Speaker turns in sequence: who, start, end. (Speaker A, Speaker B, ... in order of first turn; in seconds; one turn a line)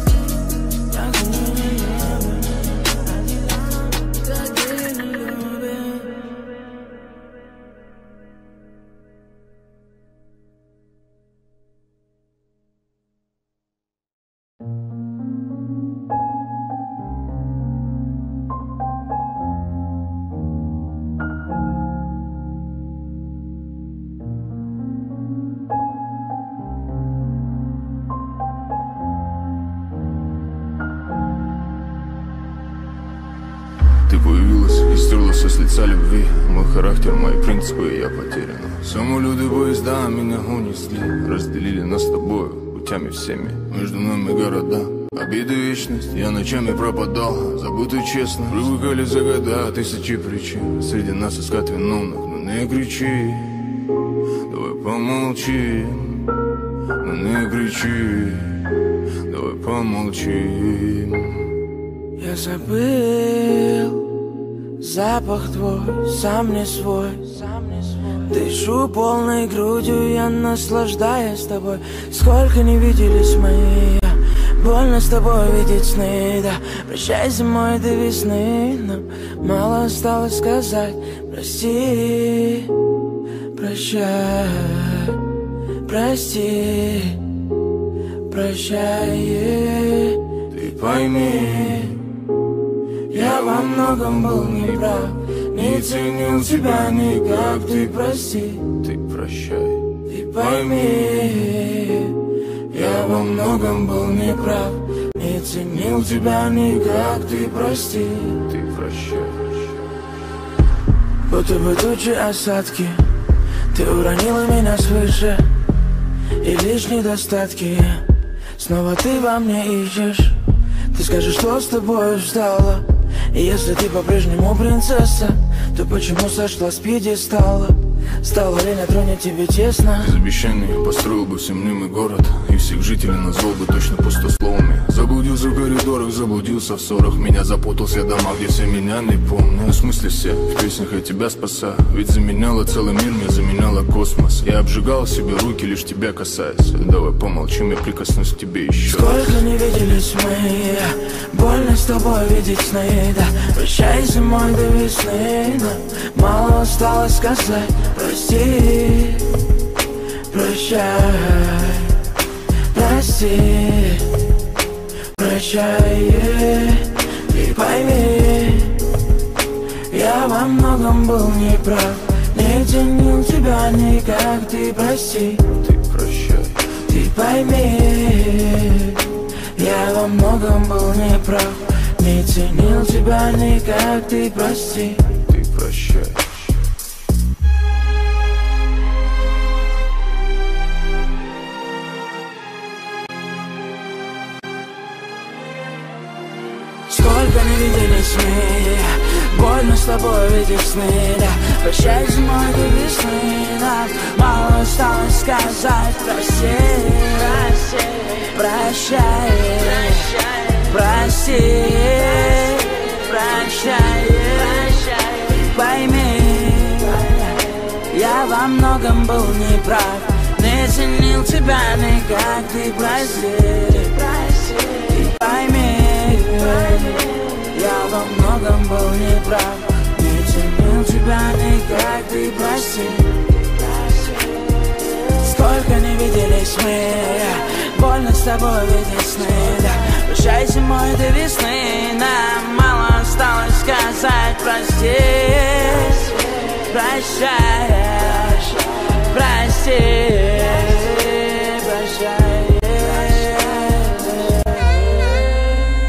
Speaker A: 0.9-6.1
Speaker B: 34.1-53.7
Speaker B: 54.5-56.3
Speaker B: 57.0-58.7
Speaker B: 59.2-61.5
Speaker A: 62.2-64.2
Speaker A: 64.8-82.7
Speaker A: 83.5-85.2
Speaker A: 85.8-87.2
Speaker A: 88.3-92.0
Speaker B: 90.5-91.0
Speaker A: 93.1-98.7
Speaker B: 98.8-99.9
Speaker A: 100.0-102.2
Speaker A: 102.7-108.4
Speaker B: 108.4-109.7
Speaker A: 111.3-113.0
Speaker A: 113.7-115.5
Speaker A: 116.4-118.0
Speaker A: 118.6-120.4
Speaker A: 120.9-130.1
Speaker B: 130.0-149.3
Speaker A: 148.8-159.4
Speaker A: 160.3-162.0
Speaker A: 162.7-164.1
Speaker A: 165.1-168.8
Speaker A: 169.9-175.5
Speaker B: 175.5-176.6
Speaker A: 176.9-179.0
Speaker A: 179.6-185.1
Speaker B: 185.2-186.5
Speaker A: 196.9-234.2
Speaker A: 235.2-255.2